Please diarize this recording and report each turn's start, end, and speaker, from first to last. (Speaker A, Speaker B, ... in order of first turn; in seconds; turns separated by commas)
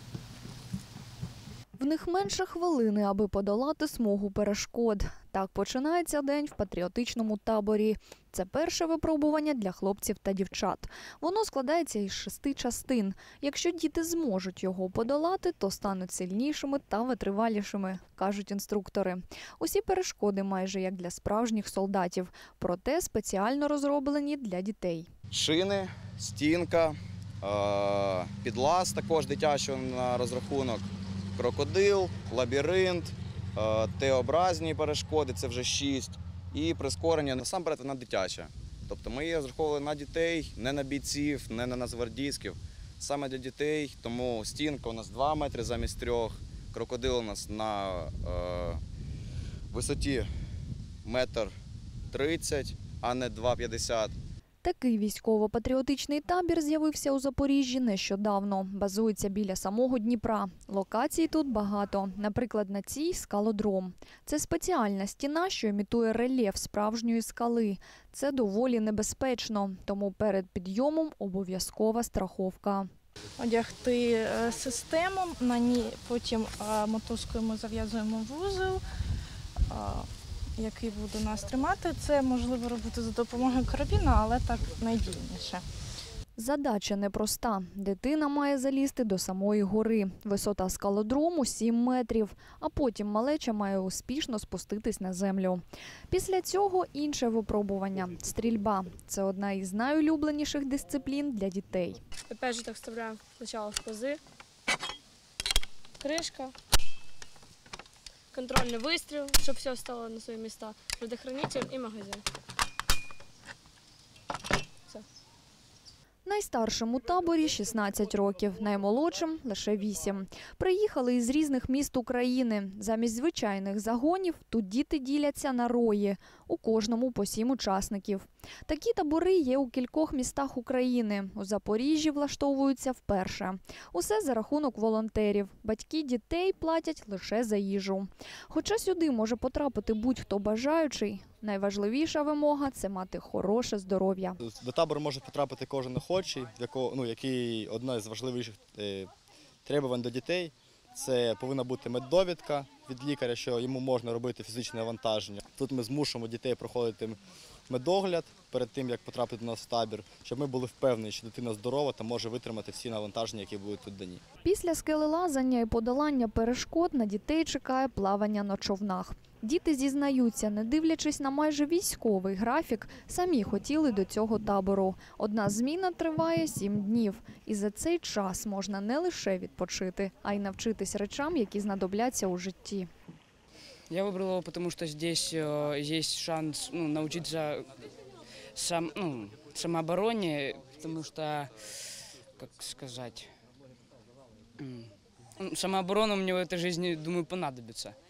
Speaker A: 1.8-25.1, Speaker B: 25.3-30.8, Speaker B: 31.4-48.8, Speaker B: 49.7-50.3, Speaker B: 51.0-51.5, Speaker B: 52.1-54.1, Speaker A: 54.6-72.9, Speaker C: 73.4-78.8, Speaker C: 79.7-85.6, Speaker A: 86.4-102.0, Speaker D: 102.3-104.2, Speaker D: 106.0-106.5, Speaker D: 108.3-112.2, Speaker A: 116.2-144.4, Speaker E: 144.4-149.1, Speaker E: 149.6-164.2, Speaker A: 164.4-182.9, Speaker F: 183.9-187.7, Speaker F: 188.5-191.5, Speaker F: 192.4-193.3, Speaker F: 194.6-197.9